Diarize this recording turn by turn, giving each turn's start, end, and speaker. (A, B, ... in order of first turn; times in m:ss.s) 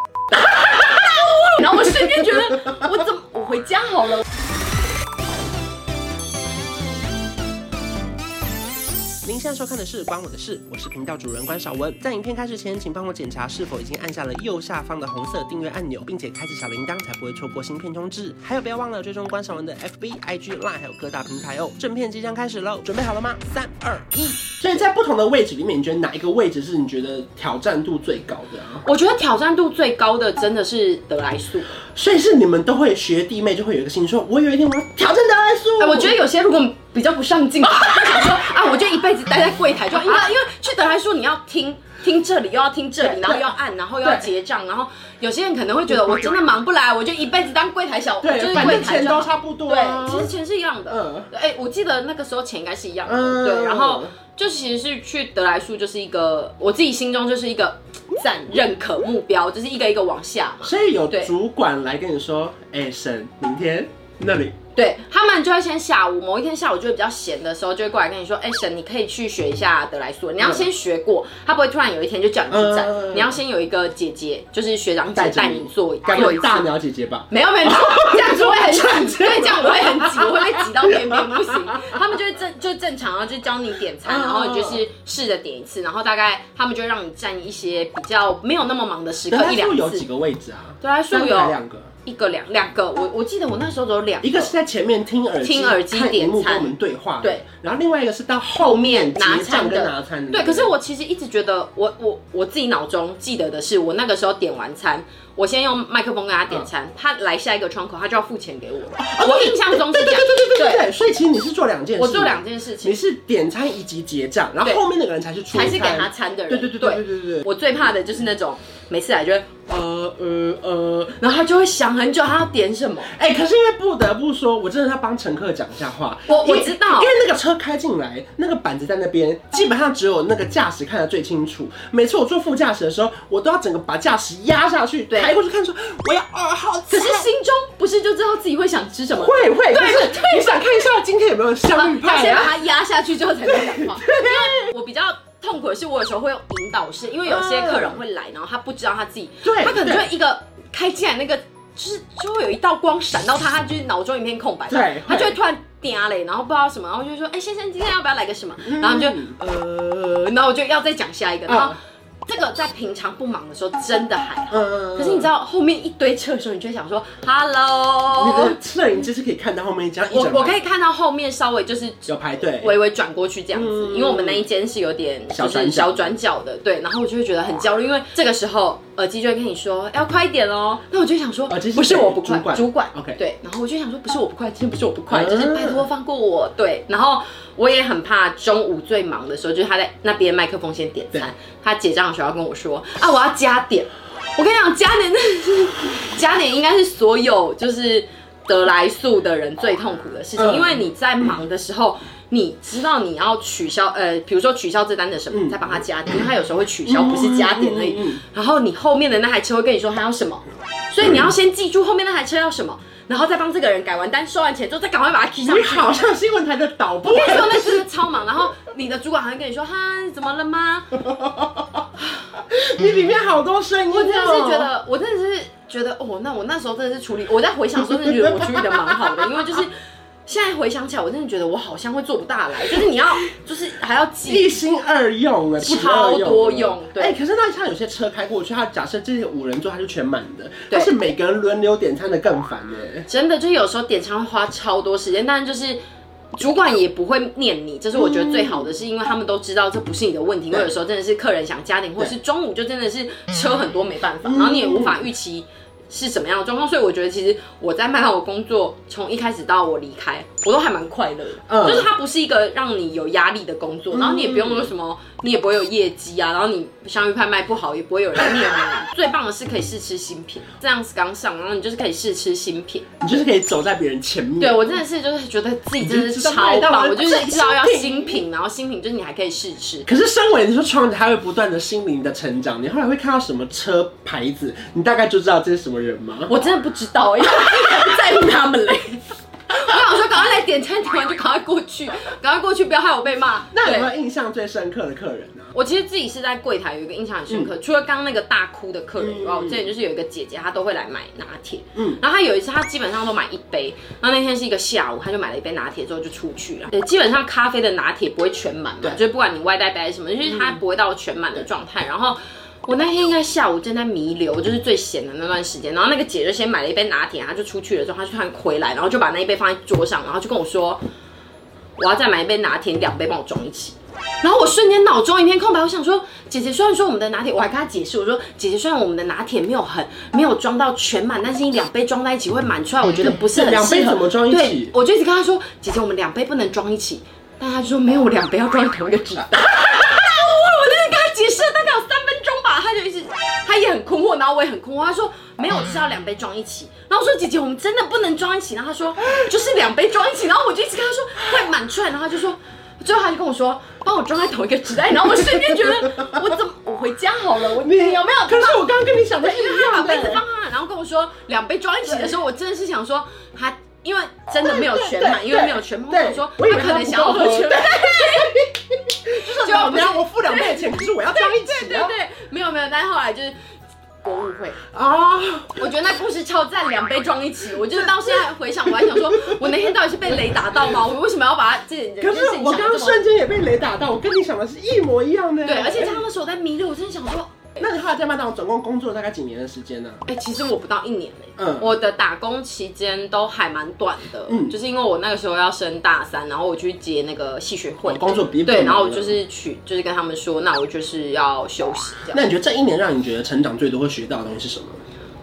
0:00.4-0:04.2 A
0:09.2-0:28.8 B
0:28.8-0:31.7 A
0:31.9-0:36.2 B
0:35.8-1:01.3 A
0:37.6-0:38.4 B
0:40.0-0:40.3 B
0:43.0-0:44.3 B
0:48.2-0:50.3 B
0:50.9-0:51.3 B
0:53.1-0:54.1 B
1:00.6-1:04.6 B
1:04.8-1:16.7 A
1:10.4-1:10.7 B
1:12.5-1:13.4 B
1:15.2-1:22.0 B
1:17.3-1:30.0 A
1:24.0-1:24.8 B
1:29.3-1:31.9 B
1:30.8-1:34.6 A
1:34.2-1:40.7 B
1:35.4-1:37.4 A
1:38.6-1:50.9 A
1:49.0-1:57.5 B
1:52.0-1:53.0 A
1:55.5-2:03.1 A
2:03.1-2:17.3 B
2:06.3-2:07.2 A
2:15.1-2:15.4 A
2:16.9-2:20.8 A
2:19.1-2:22.6 B
2:21.7-2:48.6 A
2:23.5-2:24.7 B
2:27.2-2:28.0 B
2:29.4-2:30.1 B
2:34.7-2:35.4 B
2:38.6-2:39.4 B
2:41.5-2:41.8 B
2:44.5-2:45.3 B
2:48.2-2:50.6 B
2:50.1-3:36.0 A
2:52.1-2:52.8 B
2:53.5-2:54.5 B
2:55.3-2:56.2 B
3:01.5-3:03.2 B
3:05.1-3:05.9 B
3:20.4-3:21.4 B
3:25.3-3:25.8 B
3:26.8-3:28.2 B
3:35.4-3:37.8 B
3:37.1-3:41.0 A
3:41.1-3:44.7 B
3:43.9-3:49.7 A
3:48.0-3:49.2 B
3:50.3-3:54.6 A
3:54.3-4:03.1 B
3:55.6-3:57.2 A
4:00.7-4:01.0 A
4:03.1-4:05.8 A
4:06.3-4:33.1 A
4:08.0-4:08.7 B
4:14.2-4:15.1 B
4:21.5-4:21.9 B
4:23.9-4:24.7 B
4:33.0-4:34.8 B
4:34.4-4:39.9 A
4:35.8-4:38.2 B
4:39.9-4:46.4 B
4:46.3-4:53.9 A
4:53.5-4:55.5 B
4:55.5-5:20.8 A
4:59.0-4:59.7 B
5:01.8-5:02.0 B
5:10.2-5:10.6 B
5:21.8-6:08.5 A
5:32.9-5:34.7 B
5:55.2-5:56.3 B
5:57.5-6:00.2 B
6:01.9-6:02.2 B
6:04.4-6:12.0 B
6:09.3-6:13.4 A
6:14.0-6:14.6 A
6:14.7-6:15.7 B
6:15.6-6:23.0 A
6:17.6-6:20.7 B
6:22.0-6:26.0 B
6:25.4-6:27.7 A
6:27.6-6:30.0 B
6:30.1-6:42.2 A
6:31.4-6:31.7 B
6:34.3-6:34.6 B
6:37.9-6:39.2 B
6:42.1-6:44.8 B